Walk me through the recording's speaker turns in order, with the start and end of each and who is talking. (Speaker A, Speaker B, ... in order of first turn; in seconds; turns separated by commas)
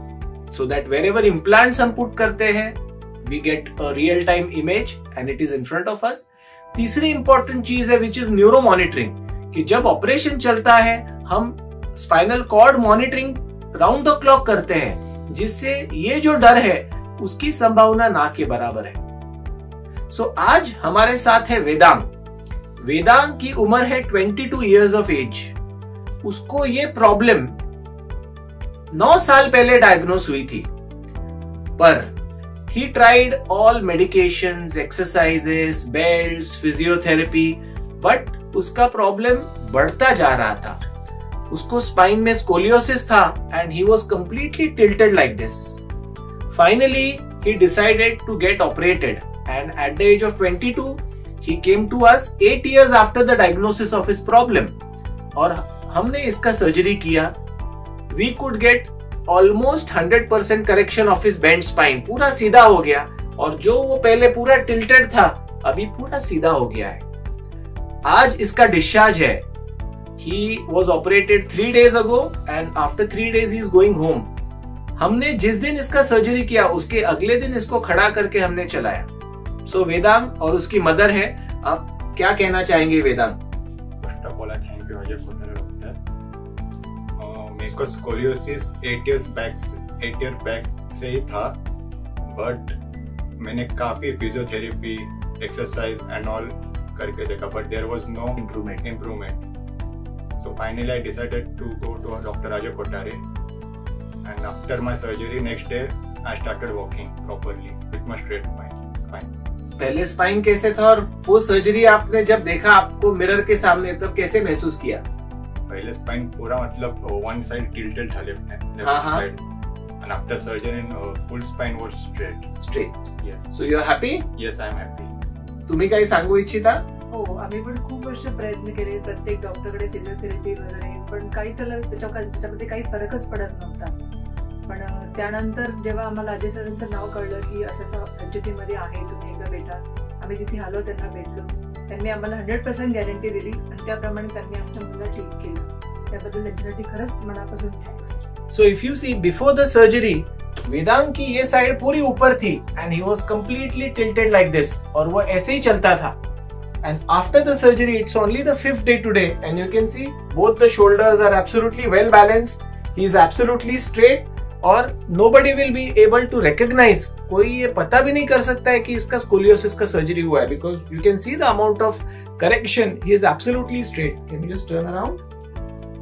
Speaker A: 0.5-19.1, Speaker A: 20.1-22.1, Speaker A: 22.8-25.6, Speaker A: 26.2-27.6, Speaker A: 28.9-30.7, Speaker A: 31.8-32.1, Speaker A: 32.7-40.8, Speaker A: 41.5-45.9, Speaker A: 46.5-54.8, Speaker A: 55.4-57.4, Speaker A: 58.1-67.1, Speaker A: 68.1-69.4, Speaker A: 70.2-74.3, Speaker A: 75.0-79.1, Speaker A: 79.7-83.4, Speaker B: 84.0-86.0, Speaker B: 87.2-91.6, Speaker B: 92.3-92.8, Speaker B: 93.4-99.4, Speaker A: 98.4-98.8, Speaker B: 100.4-103.2, Speaker B: 104.2-109.3, Speaker A: 109.8-115.0, Speaker B: 115.7-119.4, Speaker A: 118.8-119.2, Speaker B: 120.0-122.5, Speaker A: 122.6-123.0, Speaker B: 123.2-123.5, Speaker A: 123.5-124.2, Speaker B: 124.3-125.1, Speaker A: 125.7-126.8, Speaker C: 127.1-133.9, Speaker C: 134.7-148.2, Speaker A: 148.5-156.2, Speaker A: 156.8-175.2